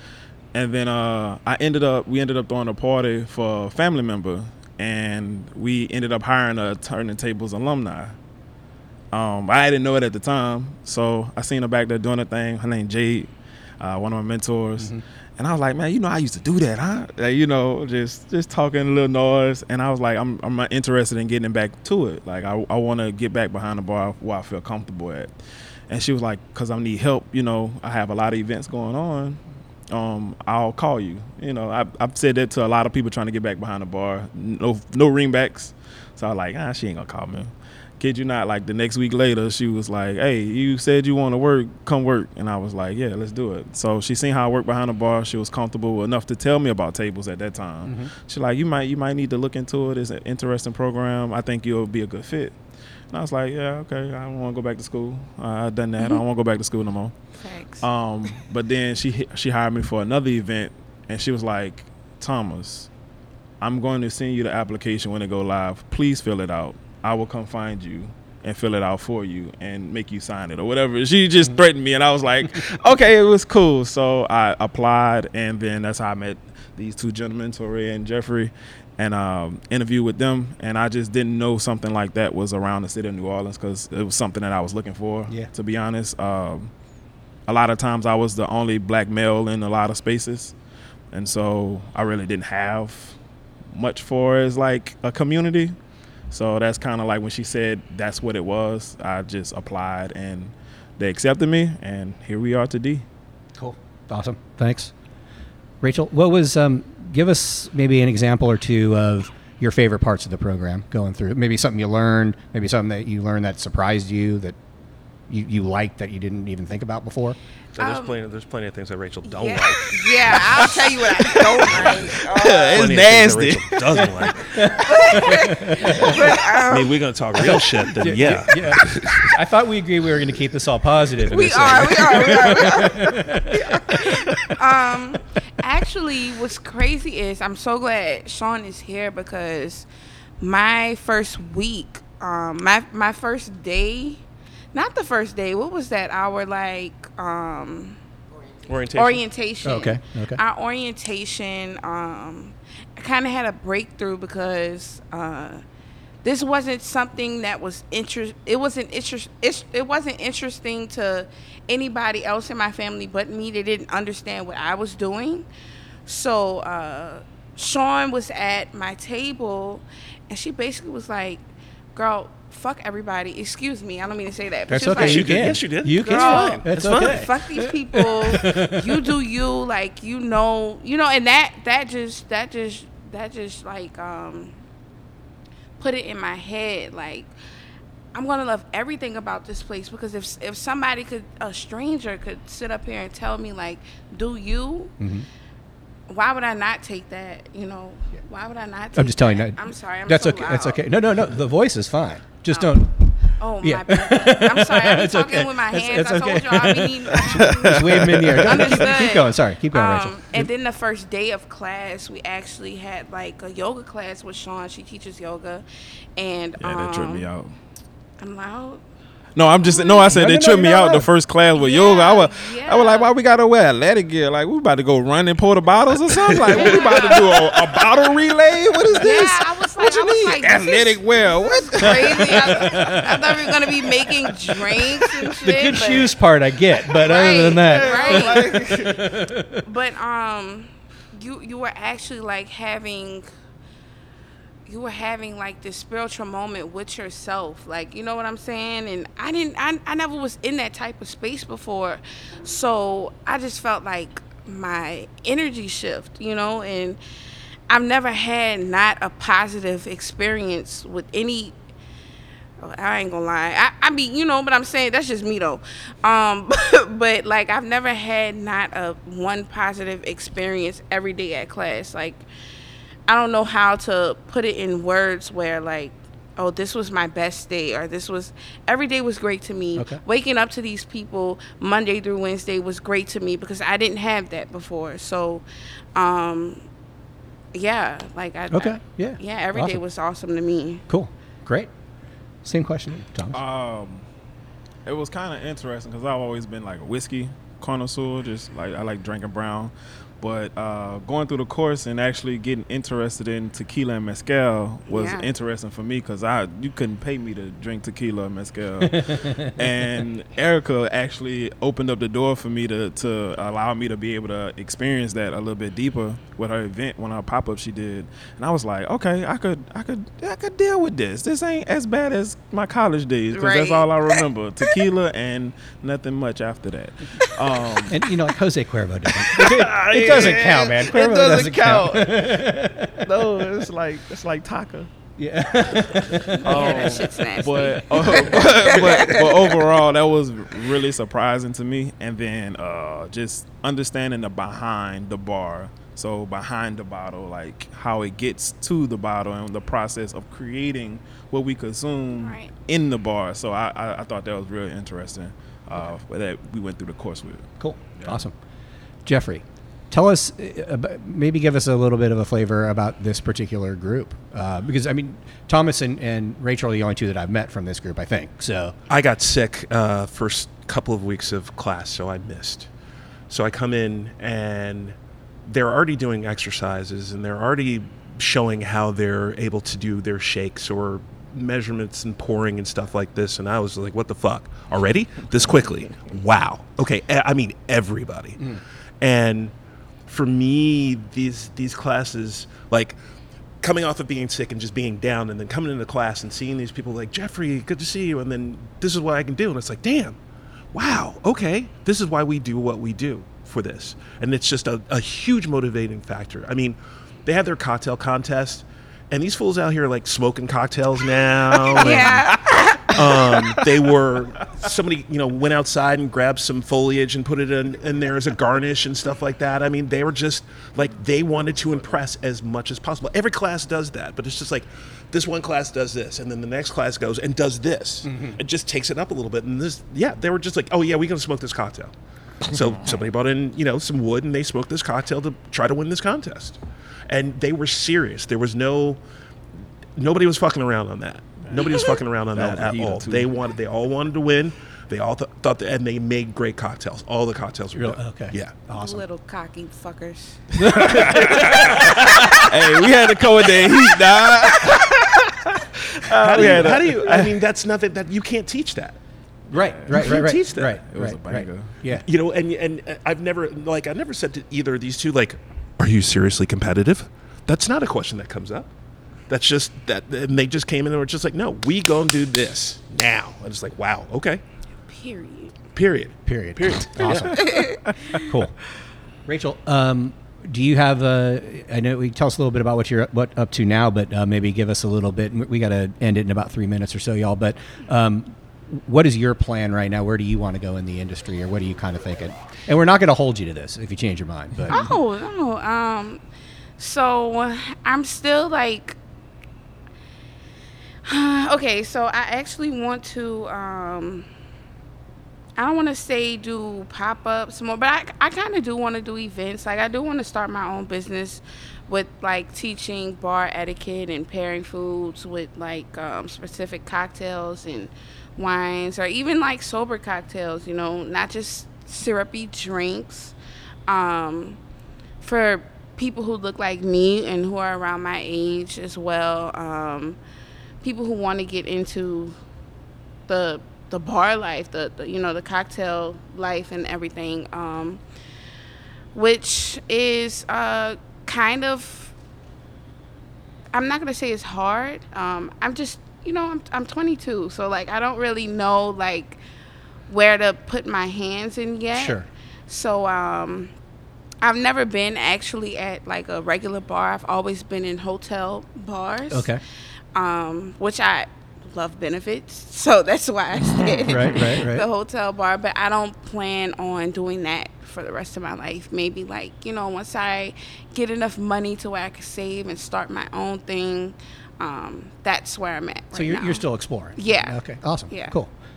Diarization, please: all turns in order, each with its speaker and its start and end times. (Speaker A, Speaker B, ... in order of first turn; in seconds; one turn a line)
Speaker A: 0.5-8.2
Speaker A: 9.1-25.3
Speaker A: 25.9-62.9
Speaker B: 47.8-48.1
Speaker C: 57.3-57.9
Speaker A: 63.6-86.7
Speaker A: 87.5-90.5
Speaker A: 91.1-95.8
Speaker A: 96.3-103.0
Speaker B: 103.5-104.9
Speaker B: 105.8-114.6
Speaker B: 115.3-117.4
Speaker D: 117.7-124.8
Speaker C: 117.8-118.2
Speaker C: 119.2-122.9
Speaker A: 122.3-124.1
Speaker B: 124.6-126.3
Speaker C: 124.8-126.9
Speaker D: 126.7-129.3
Speaker B: 127.3-134.8
Speaker C: 131.2-139.9
Speaker C: 140.4-144.2
Speaker C: 144.7-148.0
Speaker D: 148.7-149.2
Speaker C: 148.9-155.6
Speaker B: 149.6-150.4
Speaker C: 156.2-165.4
Speaker C: 166.1-171.4
Speaker C: 171.9-184.6
Speaker B: 174.7-179.1
Speaker D: 174.9-177.3
Speaker C: 185.8-187.3
Speaker C: 188.1-194.9
Speaker B: 195.0-195.3
Speaker C: 196.1-200.9
Speaker B: 198.9-210.5
Speaker C: 202.5-215.6
Speaker A: 207.3-208.9
Speaker C: 216.2-217.3
Speaker A: 216.6-217.6
Speaker C: 218.2-218.8
Speaker A: 219.3-233.8
Speaker C: 219.6-221.0
Speaker B: 220.1-221.0
Speaker C: 221.5-223.1
Speaker C: 226.5-227.4
Speaker C: 229.0-236.1
Speaker B: 232.0-233.4
Speaker B: 235.4-239.6
Speaker C: 237.0-238.6
Speaker A: 237.5-238.9
Speaker C: 239.6-243.3
Speaker C: 244.7-257.0
Speaker C: 257.7-261.5
Speaker C: 262.6-272.2
Speaker C: 273.1-286.6
Speaker B: 279.8-280.0
Speaker C: 287.5-290.8
Speaker B: 288.5-289.8
Speaker B: 290.9-291.7
Speaker B: 292.4-293.4
Speaker A: 293.3-294.1
Speaker A: 294.9-328.0
Speaker C: 304.9-305.3
Speaker C: 323.3-324.2
Speaker B: 327.9-333.4
Speaker A: 329.2-334.9
Speaker B: 335.2-336.8
Speaker A: 335.7-358.2
Speaker C: 336.4-339.4
Speaker C: 352.1-352.5
Speaker B: 357.6-358.3
Speaker B: 359.1-368.7
Speaker D: 368.9-372.7
Speaker D: 373.3-389.5
Speaker D: 390.1-393.0
Speaker D: 393.6-400.2
Speaker D: 400.7-431.9
Speaker C: 411.7-413.6
Speaker B: 428.0-428.4
Speaker D: 432.4-436.6
Speaker A: 432.5-432.9
Speaker D: 437.1-439.0
Speaker D: 439.9-448.6
Speaker A: 441.4-443.4
Speaker B: 447.7-449.0
Speaker C: 448.7-451.0
Speaker B: 450.6-451.5
Speaker D: 450.9-451.9
Speaker A: 451.1-451.9
Speaker A: 452.5-455.4
Speaker A: 456.1-457.3
Speaker D: 456.1-459.0
Speaker B: 456.3-456.6
Speaker B: 459.5-462.0
Speaker A: 459.5-461.7
Speaker D: 459.9-460.8
Speaker D: 462.0-468.7
Speaker D: 469.3-474.4
Speaker C: 474.8-475.7
Speaker D: 475.7-477.6
Speaker B: 476.2-478.5
Speaker C: 477.3-478.2
Speaker B: 479.2-494.9
Speaker C: 494.7-496.2
Speaker C: 496.8-499.0
Speaker C: 501.0-504.3
Speaker C: 505.6-523.3
Speaker C: 523.9-524.6
Speaker C: 525.2-530.2
Speaker C: 530.8-532.4
Speaker C: 533.3-538.0
Speaker C: 539.1-542.1
Speaker C: 543.7-549.4
Speaker C: 550.1-553.7
Speaker B: 551.9-552.3
Speaker C: 554.4-559.6
Speaker B: 559.3-559.6
Speaker C: 560.1-578.3
Speaker B: 564.0-564.9
Speaker B: 576.1-578.5